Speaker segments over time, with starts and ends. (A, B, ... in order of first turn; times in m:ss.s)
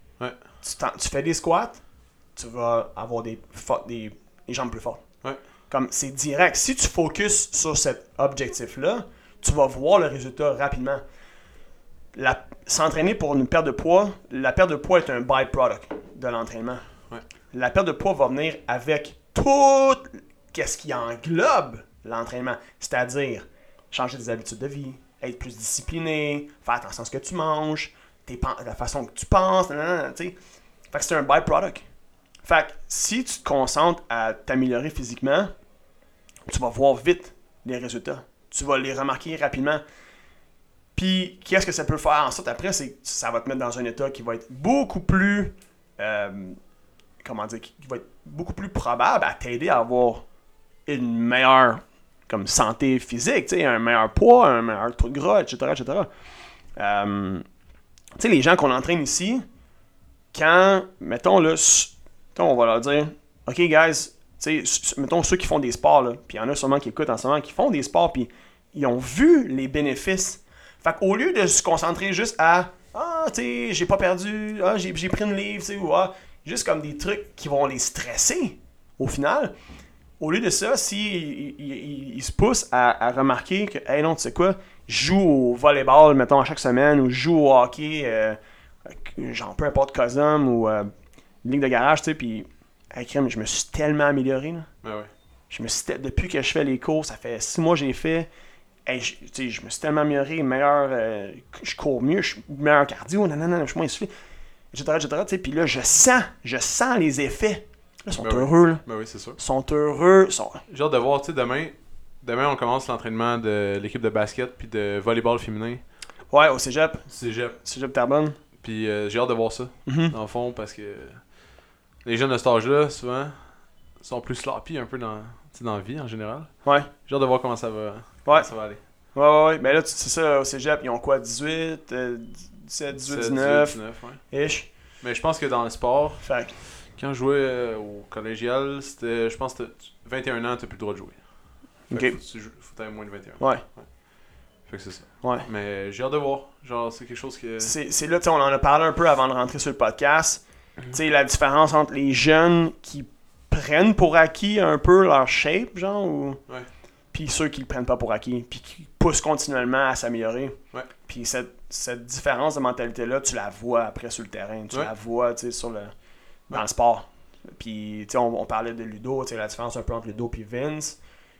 0:00.6-0:01.8 A
0:02.4-0:05.0 A
0:05.7-0:11.0 A
0:12.1-0:16.8 A
0:17.5-0:30.3 A
0:30.9-0:31.8 A
0:32.4-0:35.5 A
0:36.5-0:39.8 A
0:41.0-0:46.6 A
0:47.2-0:50.2 A
0:50.9-0:56.1 A
0:56.8-0:57.4 A
0:58.2-0:59.5 A
1:00.3-1:19.5 A
1:20.2-1:30.9 A
1:31.4-1:34.7 A
1:34.8-1:35.1 B
1:35.5-1:38.3 A
1:38.8-1:44.1 A
1:44.7-1:48.8 A
1:48.2-1:49.4 B
1:49.4-1:50.6 A
1:50.7-1:55.8 B
1:56.3-1:57.1 A
1:57.1-1:57.6 B
1:57.6-1:58.4 A
1:58.6-2:01.2 B
1:59.8-2:00.1 A
2:02.0-2:03.4 B
2:04.0-2:08.8 B
2:06.6-2:06.9 A
2:08.2-2:08.5 A
2:09.1-2:14.7 A
2:13.0-2:14.2 B
2:15.0-2:21.2 B
2:16.2-2:16.5 A
2:21.9-2:22.2 A
2:21.9-2:23.9 B
2:24.7-2:27.7 B
2:27.6-2:36.4 A
2:37.1-2:45.9 A
2:46.5-2:51.0 A